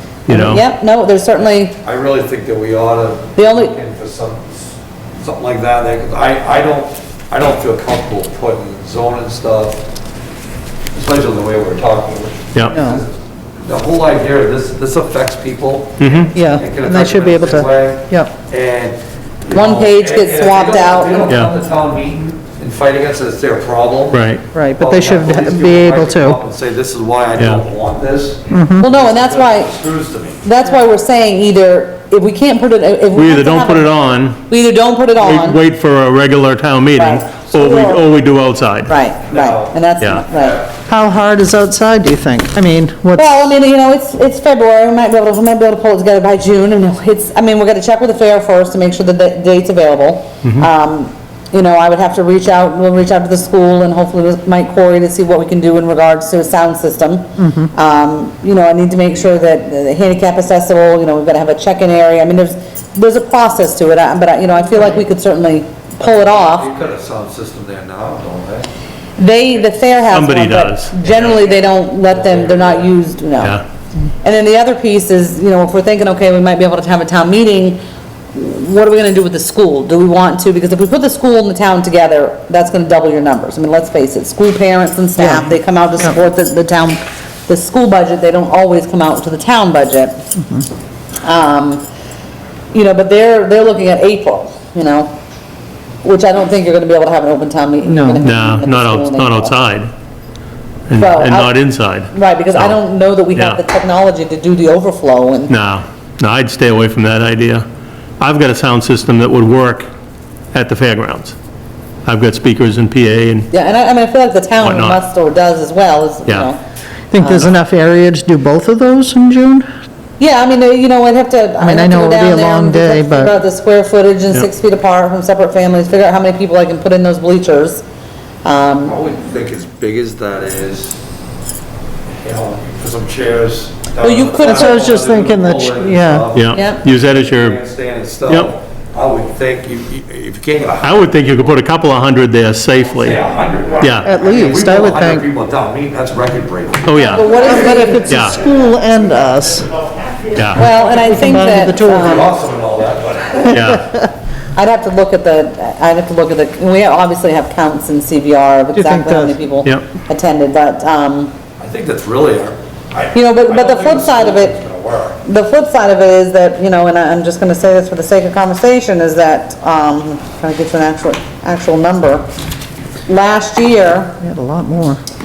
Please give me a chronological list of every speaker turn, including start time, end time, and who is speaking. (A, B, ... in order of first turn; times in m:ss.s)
0:00.3-0:00.6 A
0:00.3-0:01.8 B
0:01.8-0:09.8 C
0:03.4-0:03.8 B
0:10.9-0:30.4 C
0:12.7-0:13.0 D
0:16.0-0:16.3 A
0:16.4-0:18.3 D
0:19.5-0:21.4 B
0:21.3-0:21.5 A
0:24.1-0:24.4 A
0:24.5-0:26.4 D
0:27.4-0:27.6 A
0:28.5-0:28.9 D
0:28.8-0:29.7 B
0:30.4-0:35.6 B
0:33.1-0:34.4 A
0:35.2-0:38.9 A
0:37.0-0:38.1 B
0:38.9-0:40.7 B
0:39.3-0:39.8 C
0:40.9-0:43.5 D
0:43.2-1:06.7 B
0:57.4-0:57.7 D
1:06.0-1:08.7 C
1:09.2-1:13.6 B
1:10.1-1:10.9 A
1:11.0-1:12.9 C
1:14.2-1:17.8 B
1:18.3-1:30.2 B
1:25.2-1:25.5 D
1:30.4-1:30.6 D
1:31.2-1:31.8 B
1:32.7-1:35.1 B
1:36.0-1:39.6 B
1:37.9-1:38.2 D
1:38.2-1:39.9 A
1:40.9-1:42.8 A
1:41.0-1:41.6 B
1:42.1-1:45.5 B
1:43.3-1:43.6 A
1:45.5-1:47.6 A
1:48.2-1:49.9 A
1:50.5-1:51.3 A
1:52.1-1:53.5 A
1:53.5-1:56.6 B
1:54.6-1:55.0 A
1:57.1-1:59.7 D
1:57.2-1:57.5 B
2:00.2-2:07.8 B
2:01.6-2:03.3 D
2:08.4-2:09.0 B
2:08.8-2:11.0 C
2:12.2-2:21.3 C
2:14.0-2:14.9 B
2:14.4-2:16.3 D
2:16.3-2:17.6 A
2:16.5-2:16.8 B
2:20.8-2:23.2 A
2:22.9-2:28.6 C
2:23.8-2:24.1 A
2:24.0-2:25.3 D
2:26.9-2:27.3 A
2:27.0-2:29.7 D
2:27.4-2:28.0 B
2:28.0-2:28.4 A
2:30.4-2:30.6 A
2:30.6-2:32.3 B
2:30.7-2:32.2 D
2:31.8-2:33.7 C
2:33.5-2:33.8 A
2:33.5-2:34.1 D
2:34.6-2:41.3 B
2:38.7-2:39.4 D
2:41.6-2:45.2 C
2:43.1-2:44.6 B
2:45.2-2:52.3 B
2:53.1-2:54.2 B
2:54.2-2:55.0 D